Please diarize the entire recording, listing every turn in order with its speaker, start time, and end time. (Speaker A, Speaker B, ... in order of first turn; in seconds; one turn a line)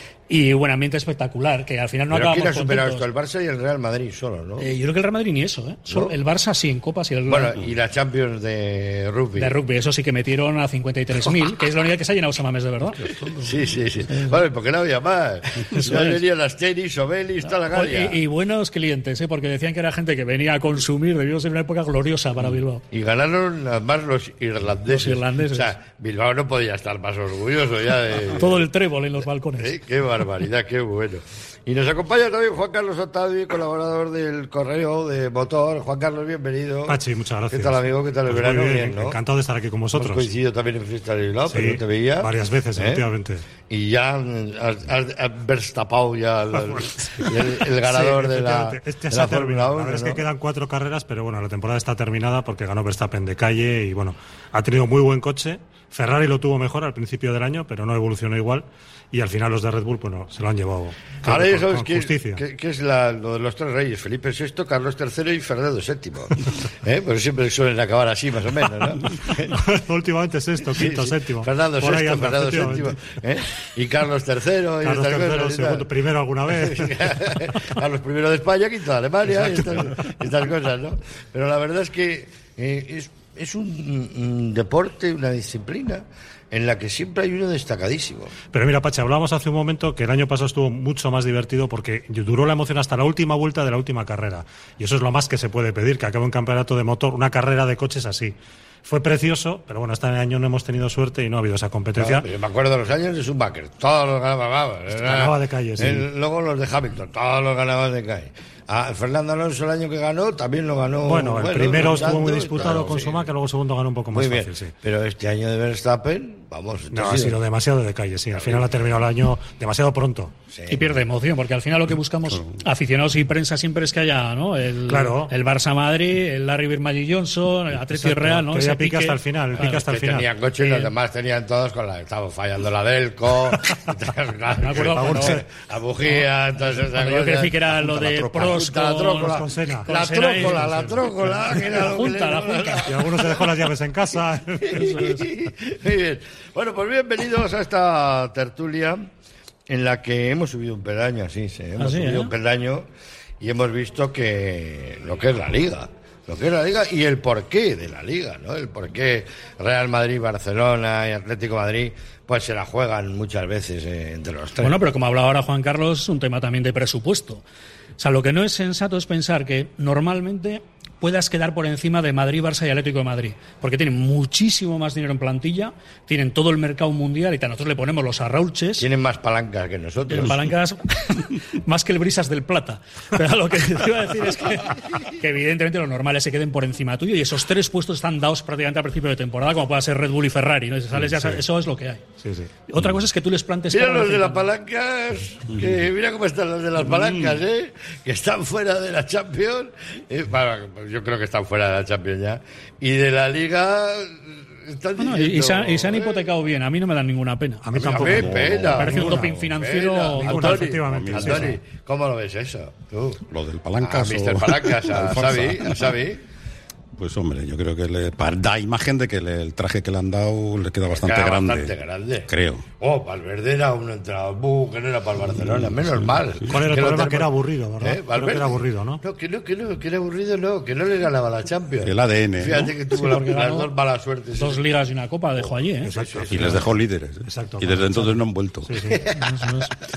Speaker A: 0.3-3.1
Speaker B: 2.1-4.7
Speaker A: 4.6-7.6
Speaker B: 5.9-6.2
Speaker B: 7.3-9.6
Speaker A: 9.4-13.1
Speaker B: 13.4-18.2
Speaker A: 15.8-16.2
Speaker A: 17.4-22.9
Speaker B: 22.9-28.7
Speaker A: 24.9-25.7
Speaker A: 28.4-29.7
Speaker B: 29.6-37.0
Speaker C: 36.9-40.3
Speaker B: 37.5-39.2
Speaker B: 39.9-43.0
Speaker C: 41.5-43.5
Speaker B: 43.7-50.2
Speaker C: 46.7-62.4
Speaker B: 61.2-69.7
Speaker C: 69.5-73.1
Speaker B: 70.7-75.9
Speaker C: 74.8-77.0
Speaker B: 76.5-88.3
Speaker C: 79.3-79.9
Speaker C: 88.5-102.3
Speaker B: 102.0-113.3
Speaker C: 104.9-106.1
Speaker C: 111.0-114.7
Speaker B: 114.1-117.4
Speaker C: 116.9-120.3
Speaker B: 118.3-118.7
Speaker B: 120.5-121.0
Speaker A: 120.7-129.8
Speaker C: 124.9-125.3
Speaker C: 127.8-130.3
Speaker B: 129.6-137.6
Speaker A: 130.6-130.9
Speaker A: 134.6-135.4
Speaker C: 134.7-135.4
Speaker A: 136.9-140.9
Speaker D: 137.8-138.6
Speaker B: 138.3-143.5
Speaker C: 139.0-141.8
Speaker A: 141.7-142.9
Speaker C: 142.9-145.0
Speaker B: 144.6-149.1
Speaker A: 144.7-145.3
Speaker B: 149.7-152.9
Speaker A: 151.8-152.3
Speaker B: 153.4-164.8
Speaker A: 164.6-167.4
Speaker A: 168.0-178.9
Speaker B: 178.8-180.4
Speaker A: 180.1-192.0
Speaker C: 191.0-191.4
Speaker C: 192.2-192.5
Speaker A: 192.7-194.5
Speaker B: 193.7-206.3
Speaker A: 205.0-207.7
Speaker C: 207.6-209.3
Speaker D: 207.7-209.4
Speaker B: 207.8-213.2
Speaker A: 208.7-210.7
Speaker C: 210.2-211.6
Speaker D: 210.8-211.6
Speaker D: 213.3-215.9
Speaker B: 213.8-216.2
Speaker D: 217.0-221.7
Speaker B: 220.9-234.7
Speaker D: 222.3-222.7
Speaker D: 225.4-226.1
Speaker C: 226.5-229.0
Speaker D: 231.8-232.8
Speaker A: 232.9-233.7
Speaker A: 234.4-235.9
Speaker B: 235.4-236.7
Speaker C: 235.8-236.6
Speaker D: 236.3-239.0
Speaker C: 237.3-238.1
Speaker C: 238.7-239.0
Speaker B: 238.9-239.3
Speaker A: 239.1-239.7